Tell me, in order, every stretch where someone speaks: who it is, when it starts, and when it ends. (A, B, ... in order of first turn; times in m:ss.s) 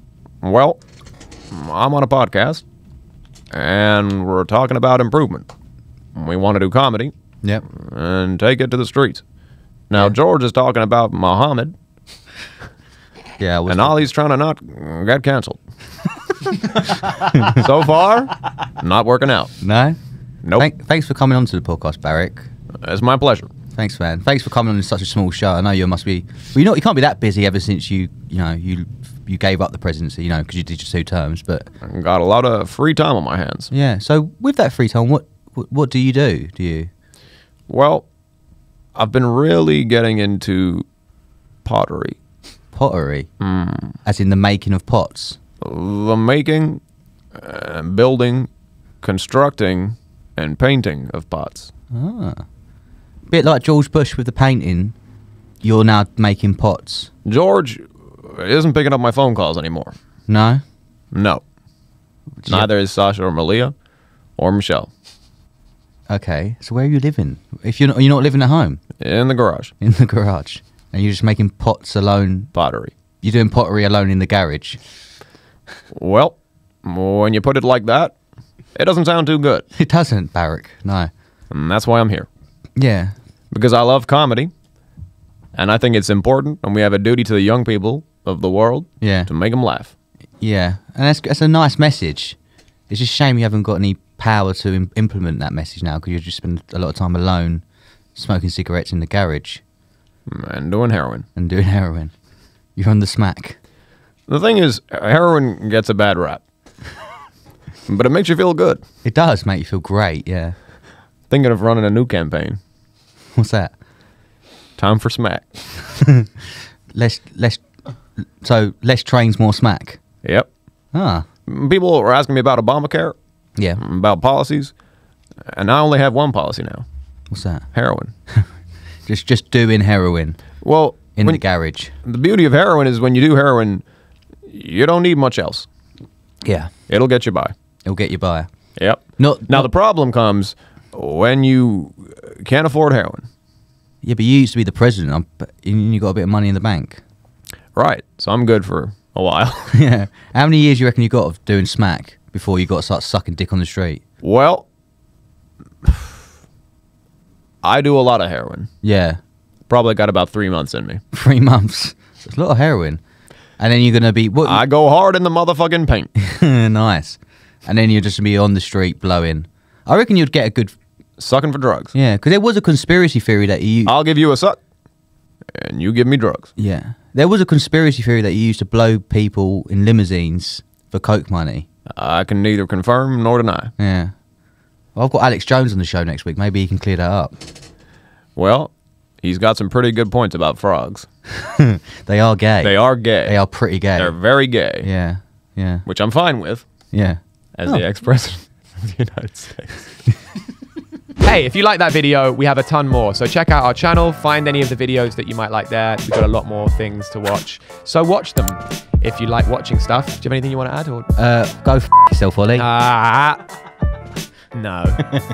0:00.4-0:00.8 A
0:01.5-0:02.6 A
0:03.5-0:05.5 A
0:06.2-0:07.1 A
0:07.7-0:09.2 A
0:09.9-0:11.7 A
0:13.4-0:14.0 B
0:13.7-0:15.6 A
0:16.8-0:17.5 B
0:17.4-0:19.5 A
0:19.6-0:20.0 B
0:20.6-0:22.5 B
0:22.8-0:23.5 A
0:23.8-0:31.7 B
0:31.8-0:33.7 A
0:33.7-0:36.9 B
0:37.7-0:38.1 A
0:39.0-0:40.9 A
0:41.6-0:42.2 A
0:42.7-0:43.3 B
0:43.4-0:44.0 A
0:44.0-0:45.4 B
0:45.6-0:46.8 A
0:47.4-0:48.5 A
0:49.0-0:51.7 A
0:51.9-0:52.4 B
0:53.3-0:55.0 B
0:55.6-0:57.1 B
0:57.2-0:59.9 A
1:00.3-1:00.6 B
1:01.1-1:01.4 A
1:02.4-1:02.7 B
1:02.5-1:03.7 A
1:04.4-1:04.9 A
1:06.1-1:08.8 B
1:09.0-1:09.7 A
1:09.8-1:12.5 B
1:12.5-1:12.9 A
1:13.2-1:14.8 B
1:15.9-1:18.2 A
1:18.8-1:19.6 A
1:19.8-1:21.1 B
1:21.5-1:22.3 A
1:22.8-1:23.1 B
1:23.5-1:24.5 A
1:25.6-1:29.9 A
1:29.0-1:29.3 B
1:30.4-1:32.4 B
1:32.9-1:37.6 B
1:38.2-1:39.6 B
1:40.3-1:41.3 A
1:41.4-1:42.2 B
1:42.8-1:43.6 B
1:44.3-1:46.4 A
1:47.9-1:48.8 A
1:49.0-1:50.6 B
1:51.3-1:52.6 A
1:53.4-1:53.8 B
1:54.8-1:55.6 A
1:56.9-1:57.7 B
1:58.2-2:00.0 B
2:00.2-2:00.5 A
2:00.9-2:01.3 B
2:01.5-2:03.2 A
2:03.8-2:04.7 A
2:05.5-2:06.8 A
2:07.3-2:07.7 B
2:07.7-2:08.1 A
2:09.0-2:10.5 B
2:10.6-2:11.4 A
2:11.2-2:11.9 B
2:12.0-2:13.8 A
2:14.5-2:15.7 A
2:16.4-2:16.7 B
2:16.9-2:17.5 A
2:17.9-2:18.5 B
2:18.8-2:23.2 A
2:19.2-2:19.7 B
2:24.0-2:27.0 B
2:27.8-2:29.8 A
2:29.7-2:34.0 B
2:34.2-2:34.7 A
2:37.6-2:38.7 A
2:38.8-2:39.2 B
2:39.7-2:41.0 A
2:41.1-2:43.0 B
2:43.6-2:44.6 B
2:44.4-2:46.1 A
2:46.2-2:50.8 B
2:51.2-2:51.9 A
2:51.9-2:53.9 B
2:53.9-2:54.6 A
2:55.6-2:56.5 A
2:56.6-3:01.7 B
3:02.0-3:03.7 A
3:03.8-3:04.1 B
3:05.0-3:07.4 B
3:08.4-3:11.1 A
3:11.6-3:14.2 B
3:12.6-3:13.4 A
3:14.0-3:14.9 A
3:14.8-3:15.8 B
3:15.9-3:16.7 A
3:16.9-3:17.8 B
3:17.6-3:19.9 A
3:21.2-3:22.2 A
3:21.2-3:30.9 C
3:22.8-3:23.0 A
3:27.6-3:27.9 A
3:30.3-3:31.1 A
3:31.2-3:32.7 B
3:32.6-3:33.3 C
3:33.0-3:33.3 A
3:34.6-3:35.0 A